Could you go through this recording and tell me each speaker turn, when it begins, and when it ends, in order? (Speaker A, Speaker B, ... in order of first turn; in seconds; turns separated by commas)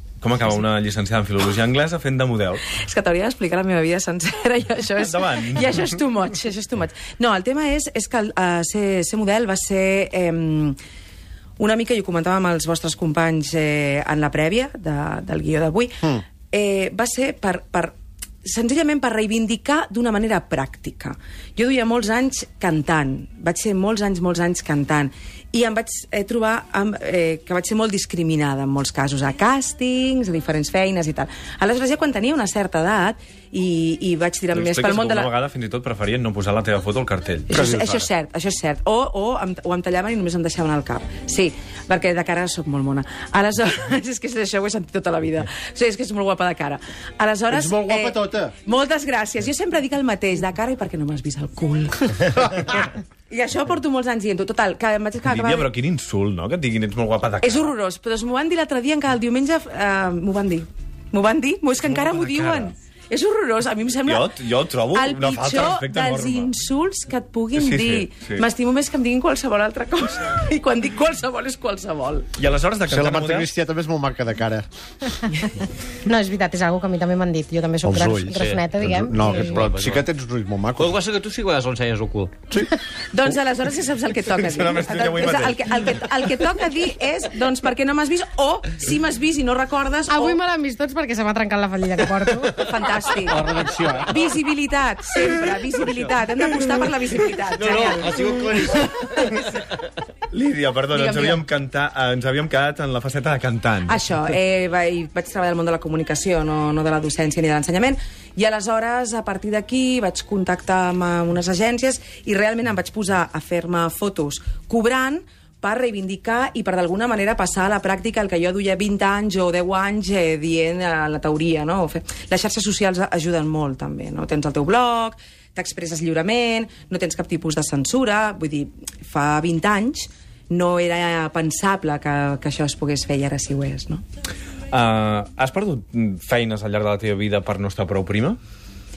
Speaker A: 0.2-2.6, Speaker B: 2.7-10.8, Speaker A: 5.0-5.8, Speaker B: 11.6-35.3, Speaker A: 34.5-38.1, Speaker B: 37.5-55.7, Speaker C: 37.5-38.0, Speaker C: 47.5-48.5, Speaker A: 55.2-57.7, Speaker B: 57.4-64.3, Speaker A: 61.8-62.7, Speaker A: 64.0-66.5, Speaker B: 64.9-72.3, Speaker A: 67.5-68.4, Speaker A: 72.4-73.5, Speaker C: 72.9-74.7, Speaker D: 76.1-79.7, Speaker C: 77.8-81.0, Speaker E: 78.3-80.0, Speaker E: 80.8-82.5, Speaker B: 83.1-90.4, Speaker A: 84.2-86.0, Speaker D: 90.1-92.7, Speaker B: 92.5-98.8, Speaker C: 93.4-93.8, Speaker E: 93.4-94.2, Speaker E: 97.6-99.4, Speaker A: 100.3-104.0, Speaker B: 100.9-101.4, Speaker B: 103.9-134.0, Speaker A: 134.7-138.4